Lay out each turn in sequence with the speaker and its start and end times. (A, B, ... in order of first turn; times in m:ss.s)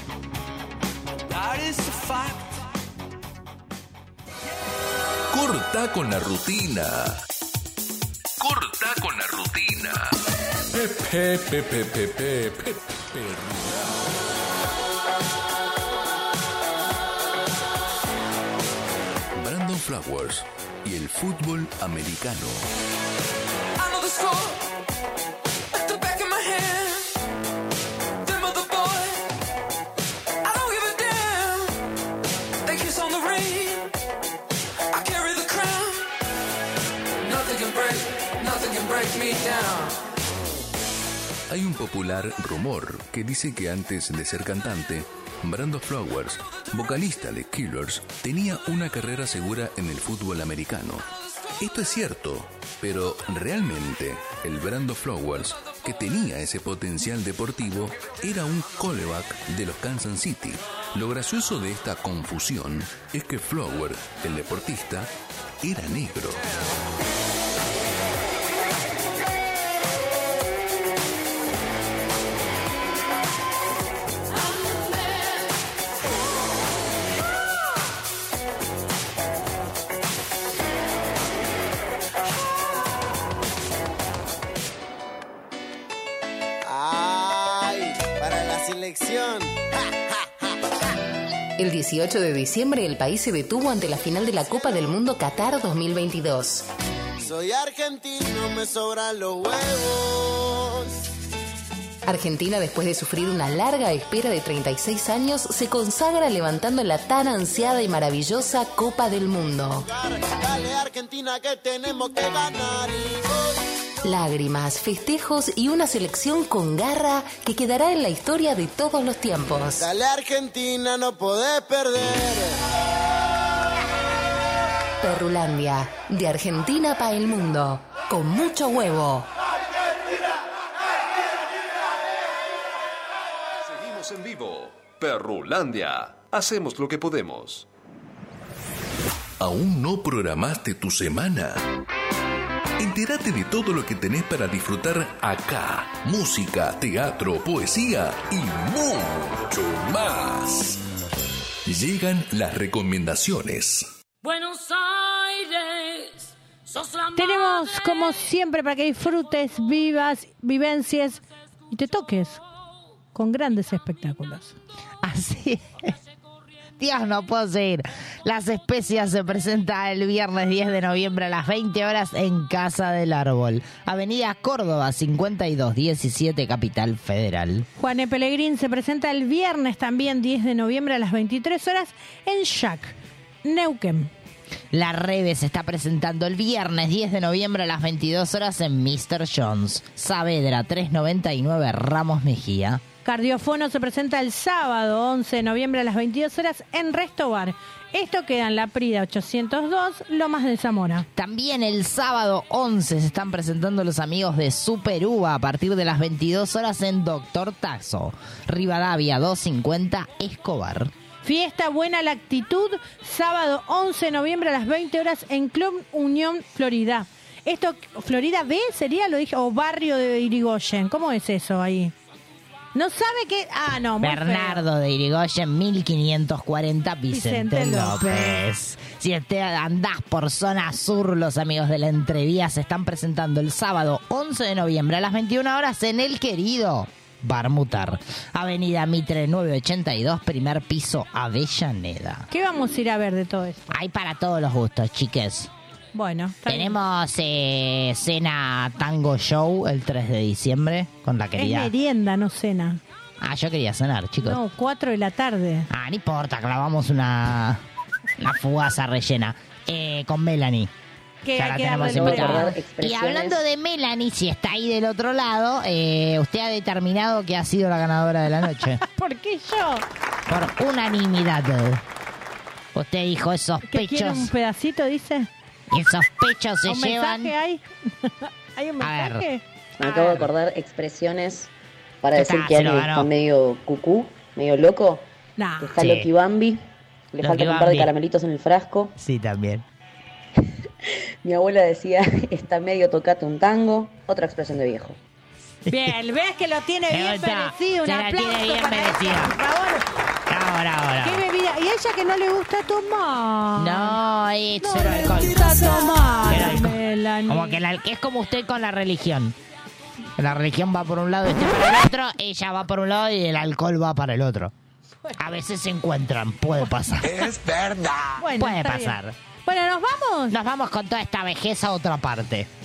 0:01.3-0:02.6 A
0:05.3-0:07.2 B
0:08.4-0:10.2 B
0:10.7-0:14.1 B
0:19.4-0:22.7 B
0:23.8-0:24.7 A
0:25.7-0:27.2 A
0:28.2-0:29.3 A
0:30.4-0:31.8 A
0:32.6-0:33.9 A
0:34.9-0:36.1 A
0:37.2-0:40.0 A
0:41.5-0:51.1 B
0:51.6-1:06.4 B
1:26.6-1:30.5 C
1:31.6-1:36.7 D
1:37.2-1:41.0 C
1:42.0-1:49.9 D
1:49.8-1:53.6 C
1:54.0-1:59.9 D
1:59.8-2:02.6 C
2:05.0-2:09.3 D
2:13.6-2:17.7 E
2:19.4-2:21.7 B
2:22.8-2:30.8 B
2:31.7-2:33.9 B
2:34.4-2:34.8 A
2:37.2-2:42.4 F
2:43.1-2:44.6 F
2:45.0-2:46.0 G
2:46.8-2:57.7 G
2:57.8-3:04.1 F
3:04.7-3:12.8 G
3:13.0-3:21.1 F
3:21.2-3:30.9 G
3:31.2-3:41.9 F
3:42.8-3:44.7 F
3:44.0-4:02.3 G
3:47.1-3:48.4 F
4:02.3-4:03.8 F
4:03.7-4:05.5 G
4:05.9-4:06.8 F
4:06.5-4:11.7 G
4:11.4-4:12.8 F
4:13.2-4:14.4 G
4:14.2-4:15.7 F
4:15.7-4:17.6 G
4:18.2-4:20.7 G
4:21.2-4:22.6 F
4:21.3-4:28.8 G
4:21.8-4:23.4 H
4:28.6-4:29.9 F
4:30.3-4:31.8 G
4:32.7-4:34.3 G
4:33.7-4:35.3 F
4:35.7-4:37.4 G
4:36.7-4:39.4 F
4:38.8-4:39.3 G
4:39.8-4:41.5 H
4:42.0-4:45.1 H
4:42.2-4:43.1 G
4:45.4-4:45.8 F
4:45.6-4:46.6 H
4:45.8-4:46.1 G
4:47.1-4:49.0 H
4:47.2-4:47.9 G
4:49.0-4:49.6 G
4:51.2-4:55.0 H
4:55.7-4:59.9 F
4:56.9-4:59.4 G
5:00.3-5:01.2 G
5:01.0-5:04.0 F
5:03.6-5:09.4 G
5:04.6-5:07.6 F
5:10.2-5:14.5 G
5:15.2-5:17.3 G
5:18.2-5:20.4 F
5:18.3-5:19.2 G
5:20.3-5:22.5 G